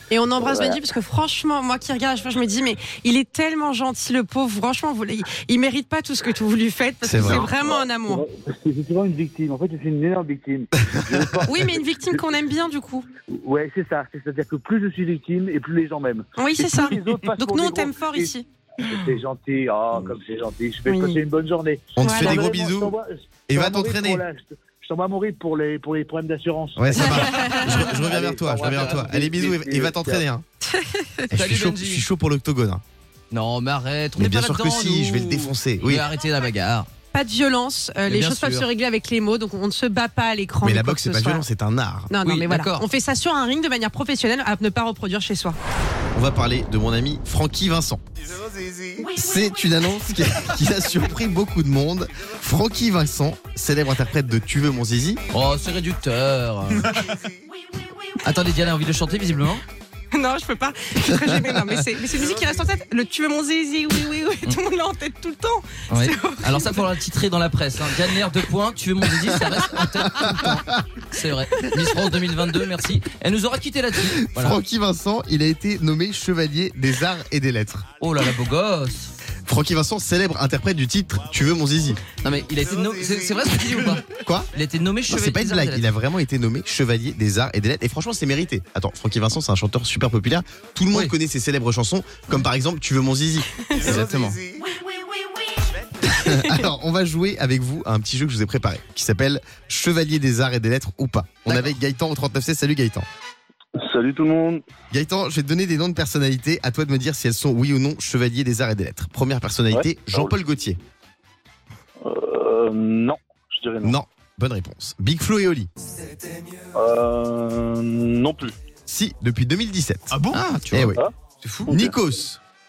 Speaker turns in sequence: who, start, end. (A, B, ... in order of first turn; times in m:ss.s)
0:00.1-0:08.2 A
0:00.4-0:00.8 B
0:07.0-0:07.4 C
0:07.2-0:12.2 B
0:10.8-0:11.1 C
0:11.4-0:13.0 A
0:13.3-0:30.2 B
0:16.4-0:18.5 A
0:20.9-0:21.2 A
0:22.0-0:22.9 C
0:22.0-0:22.4 A
0:23.5-0:24.2 C
0:26.8-0:30.4 C
0:28.6-0:29.0 D
0:30.7-0:31.2 A
0:31.3-0:32.8 C
0:31.3-0:32.0 D
0:33.3-0:36.9 D
0:34.2-0:36.1 C
0:37.1-0:41.4 A
0:38.1-0:38.7 D
0:40.6-0:42.1 C
0:42.1-0:45.6 A
0:42.2-0:42.8 D
0:46.1-0:48.0 C
0:49.1-0:55.2 C
0:55.3-0:57.2 D
0:58.2-0:59.6 D
1:00.1-1:06.9 A
1:05.9-1:14.6 D
1:14.2-1:17.9 C
1:18.0-1:19.1 D
1:19.4-1:22.0 C
1:22.2-1:25.9 D
1:24.1-1:24.5 C
1:25.1-1:33.6 C
1:33.7-1:34.4 D
1:36.0-1:43.0 C
1:36.2-1:36.5 A
1:43.8-1:44.6 E
1:44.9-1:50.8 C
1:49.7-1:50.3 E
1:52.0-1:54.0 E
1:53.8-1:55.7 C
1:56.7-1:58.6 E
1:58.9-2:00.1 C
2:00.1-2:00.4 E
2:00.3-2:01.7 D
2:00.7-2:01.0 C
2:01.6-2:01.9 E
2:01.7-2:02.4 C